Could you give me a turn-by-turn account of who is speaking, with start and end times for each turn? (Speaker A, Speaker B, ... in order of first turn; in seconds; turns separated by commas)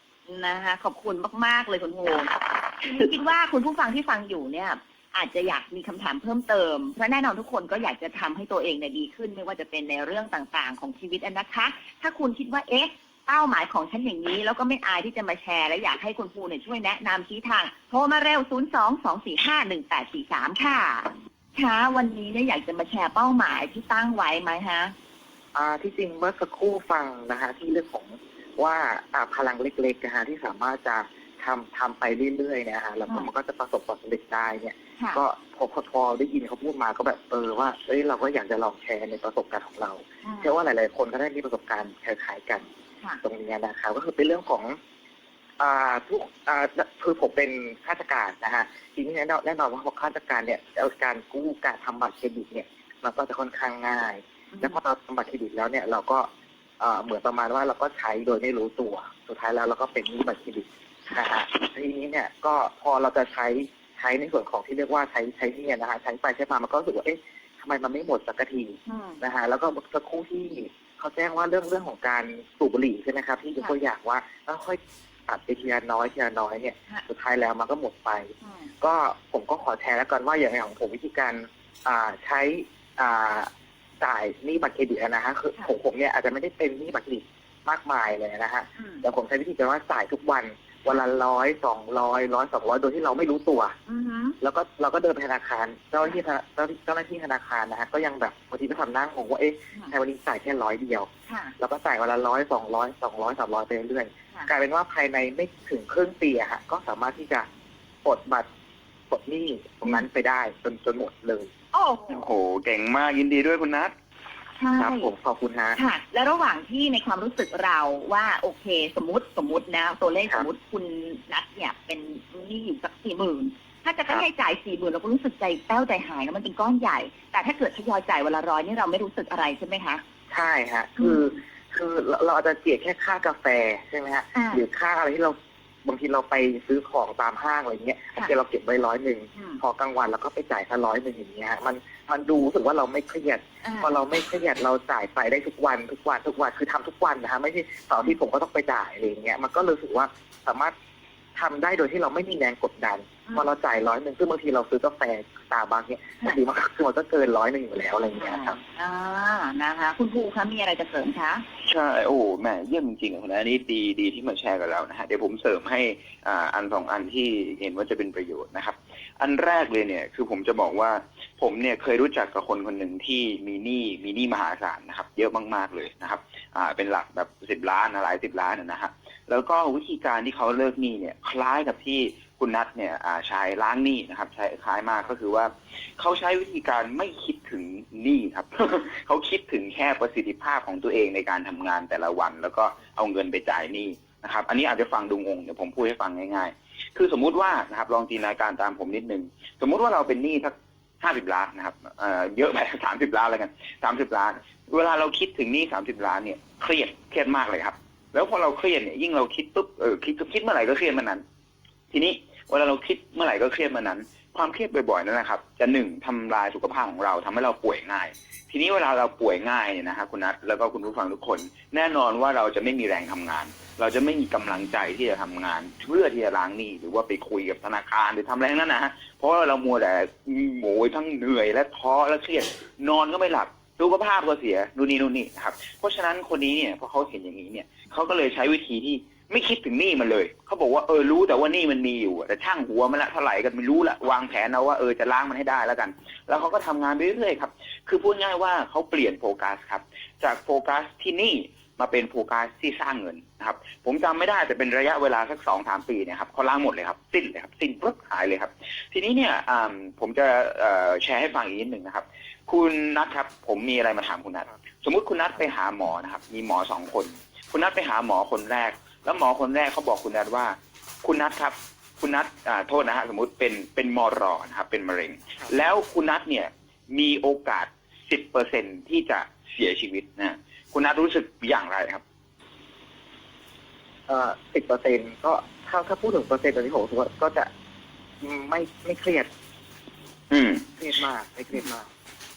Speaker A: 0.3-24.9, Speaker B: 25.5-42.7, Speaker A: 40.2-40.5, Speaker B: 43.2-44.8, Speaker B: 45.6-56.3, Speaker A: 54.5-54.8, Speaker B: 56.8-93.8, Speaker A: 68.9-69.2, Speaker A: 78.4-78.7, Speaker A: 88.8-89.0, Speaker A: 93.9-94.4, Speaker B: 94.4-107.5, Speaker A: 101.3-101.5, Speaker B: 108.0-108.5, Speaker B: 109.1-111.5, Speaker A: 111.7-112.2, Speaker C: 112.1-113.9, Speaker A: 114.6-115.1, Speaker B: 114.8-115.8, Speaker A: 115.8-130.0, Speaker B: 130.3-150.8, Speaker A: 131.0-131.2, Speaker A: 134.3-134.6, Speaker A: 139.3-139.6, Speaker A: 143.6-143.9, Speaker B: 151.3-158.6, Speaker A: 158.2-161.4, Speaker C: 161.6-211.2, Speaker C: 211.9-282.0, Speaker B: 284.1-287.5, Speaker B: 288.2-289.3, Speaker C: 290.3-290.7, Speaker B: 290.8-291.9